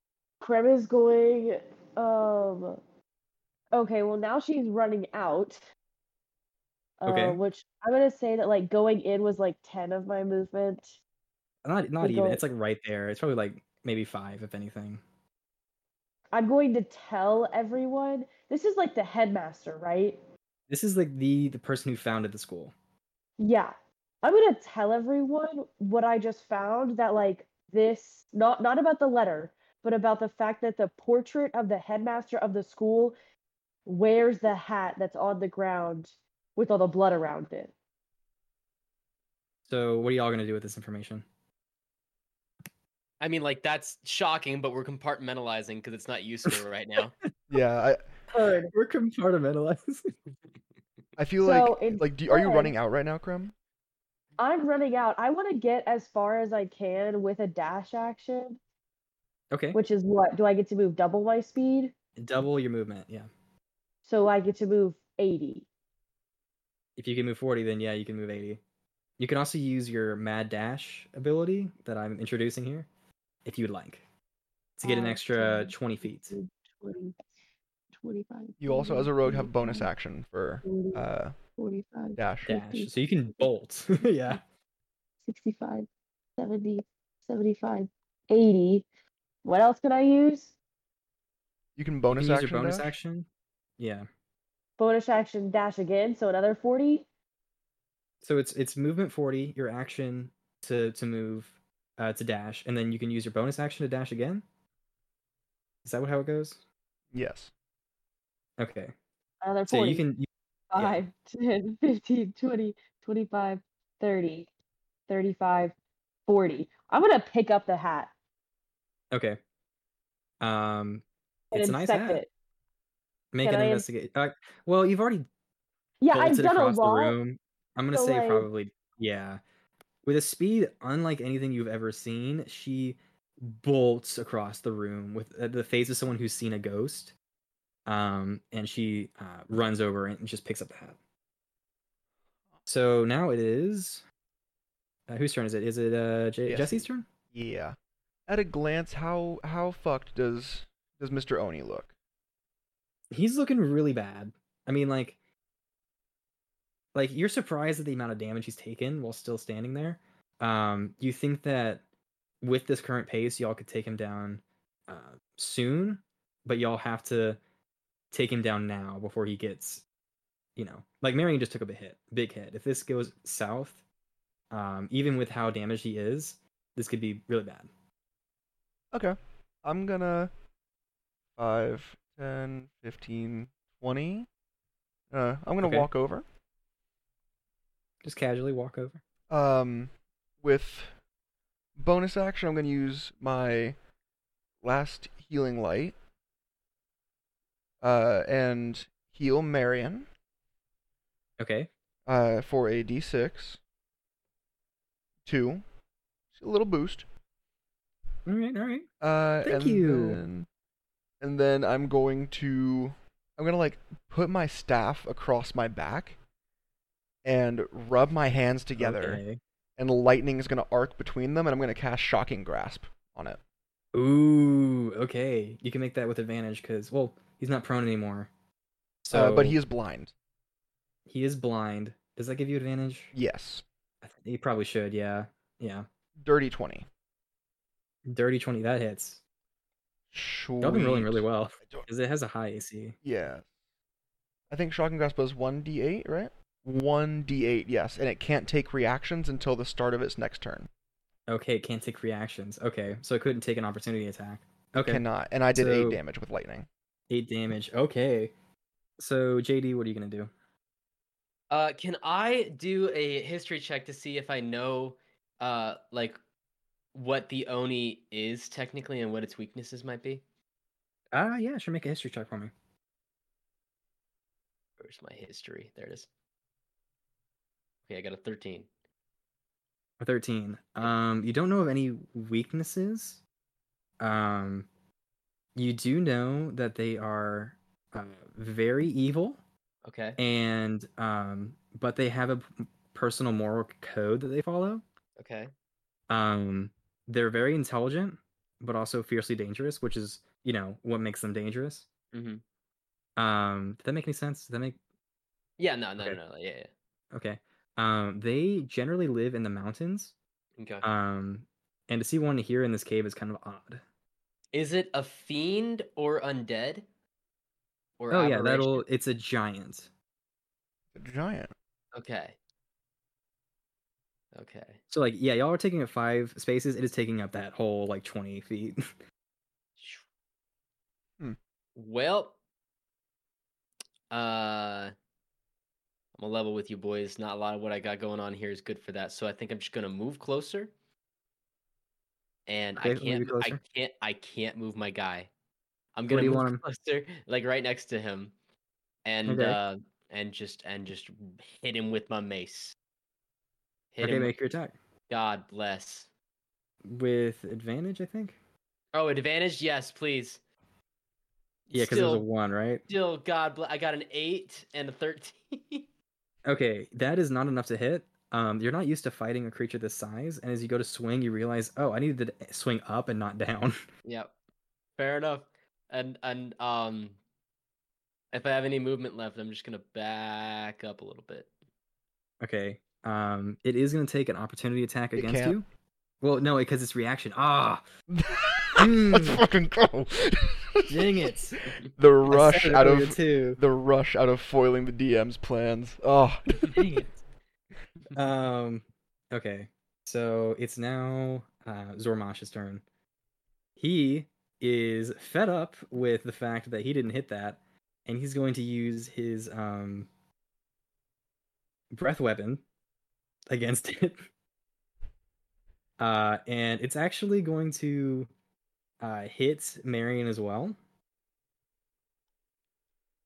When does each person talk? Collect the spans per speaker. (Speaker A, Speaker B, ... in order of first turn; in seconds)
Speaker A: 0.4-2.8, 3.7-5.6, 7.0-11.0, 12.0-12.4, 16.3-20.2, 23.4-33.1, 33.9-37.7, 48.3-48.7, 51.4-52.7, 54.4-58.6, 59.7-61.9, 64.0-65.7, 74.8-77.2, 77.9-79.9, 80.6-81.0, 81.6-83.4, 85.2-88.9, 89.4-90.5, 94.8-97.1, 109.4-110.0, 110.7-114.5, 115.1-115.7, 116.3-118.1, 121.5-122.3, 123.4-123.9, 126.0-127.2, 127.9-128.5
Speaker B: 7.1-7.4, 11.6-15.0, 20.7-22.7, 39.7-41.2, 48.7-50.1, 59.5-59.8, 62.2-63.3, 67.0-68.6, 69.2-72.9, 73.5-74.0, 74.8-76.3, 82.5-84.4, 92.1-93.3, 93.8-94.1, 98.2-104.4, 105.8-106.6, 108.6-108.9, 109.7-111.0, 119.1-119.4, 120.4-122.2, 123.3-125.3, 126.1-129.4, 130.0-137.1, 137.9-141.0, 142.7-144.0, 145.1-147.0, 153.1-155.2, 156.9-161.8, 162.4-167.4, 168.1-169.8, 170.6-173.8, 174.5-177.7, 185.6-185.9, 188.0-189.0, 201.4-201.7, 208.3-208.9, 209.4-210.2, 218.8-219.4, 223.9-228.3, 229.0-229.6, 231.1-233.1, 234.0-235.9, 238.1-239.2, 240.6-243.0, 251.3-255.0, 255.5-256.0, 257.1-258.3, 259.0-260.3, 271.1-272.5, 280.0-283.2, 284.0-284.7, 285.6-289.4, 290.2-294.8, 296.1-301.9, 303.2-304.8, 307.1-310.1, 310.8-313.8, 318.1-319.9, 324.9-328.8, 342.8-343.6, 346.1-346.6, 349.3-349.6, 354.0-354.8, 356.9-358.4, 361.7-362.8, 366.5-373.8, 382.4-385.6, 386.2-387.8, 388.8-389.4, 390.9-391.8, 392.3-393.6, 396.7-397.2, 398.1-402.8, 403.8-410.1, 411.9-412.6, 413.5-414.2, 416.0-418.3, 419.0-420.8
Speaker C: 43.2-47.1, 261.5-266.2, 266.9-270.2, 274.8-276.1, 277.9-278.7, 289.9-290.2, 295.2-295.5, 302.1-302.4, 305.6-306.7, 310.6-310.9, 314.5-316.9, 318.0-318.8, 321.9-322.4, 324.3-324.8, 329.8-330.0, 331.8-332.4, 334.1-334.9, 336.2-340.7, 342.5-345.3, 345.9-348.3, 349.1-352.8, 353.9-354.3, 355.1-356.1, 358.9-360.4, 361.7-362.3, 362.9-365.9, 374.1-374.3, 375.0-377.2, 378.3-381.5
Speaker D: 47.5-48.0, 51.2-53.5, 78.6-81.3, 82.2-82.5, 91.8-92.9, 107.1-107.5, 146.5-147.8, 148.3-151.9, 178.9-180.3, 181.4-184.3, 185.1-186.2, 189.3-190.9, 191.8-193.8, 194.6-195.9, 197.8-200.1, 202.1-203.6, 205.3-205.6, 206.3-207.1, 209.0-210.5, 211.2-216.2, 217.2-219.2, 219.8-223.4, 229.1-230.1, 233.1-233.6, 236.2-236.9, 240.1-241.8, 243.0-243.5, 244.5-250.7, 254.8-256.7, 320.9-321.5, 385.1-385.6, 388.1-396.9